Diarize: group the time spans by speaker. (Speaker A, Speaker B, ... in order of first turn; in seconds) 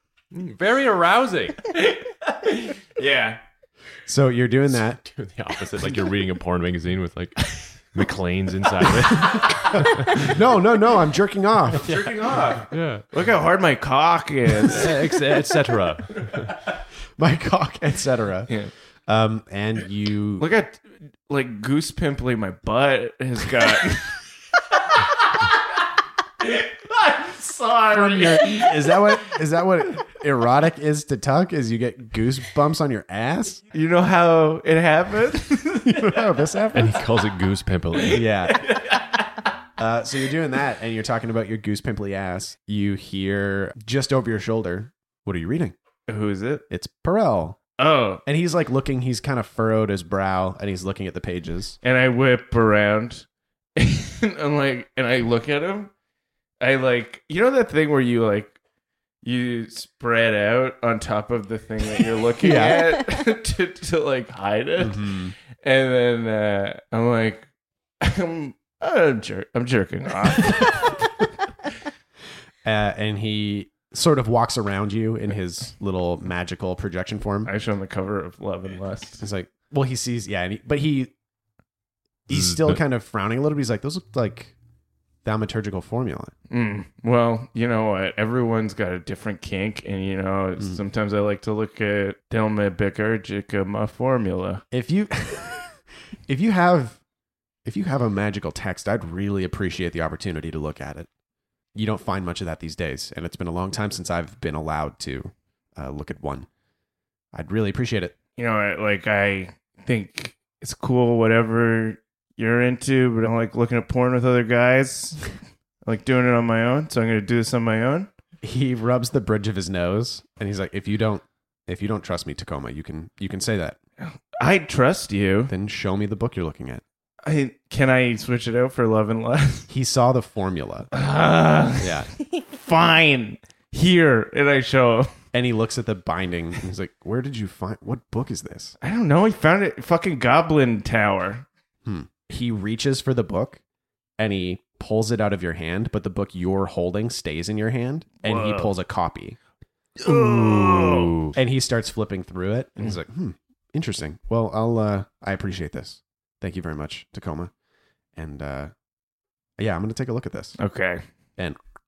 Speaker A: 0.3-1.7, 5.0-10.3, 12.7-13.0, 14.6-16.5, 36.7-38.2, 82.3-82.8, 150.0-151.3
Speaker B: 1.7-3.4, 11.8-15.1, 20.4-24.2, 24.8-25.4, 26.4-28.7, 33.7-36.2, 38.1-39.1, 46.1-46.6, 47.8-48.2, 51.8-53.2, 53.8-55.9, 56.6-58.5, 59.2-67.5, 68.0-71.2, 77.4-79.2, 86.5-94.6, 108.4-118.1, 124.3-125.5, 127.2-129.7, 130.9-135.1, 138.8-141.4, 148.2-148.7, 150.0-151.2, 160.6-161.0
Speaker C: 4.0-5.0, 10.2-12.4, 17.2-18.5, 19.1-20.5, 27.9-33.6, 35.8-37.0, 38.1-38.7, 39.8-45.7, 46.7-47.6, 48.2-51.8, 62.4-63.0, 64.8-65.3, 72.6-77.5, 79.2-81.1, 82.3-84.5, 85.2-86.3, 94.7-97.0, 97.6-101.1, 101.7-106.5, 107.3-108.2, 118.4-123.8, 125.5-126.8, 129.7-130.9, 131.8-132.1, 135.3-138.7, 141.8-143.6, 144.2-149.4, 151.3-157.5, 158.2-158.7, 159.6-160.6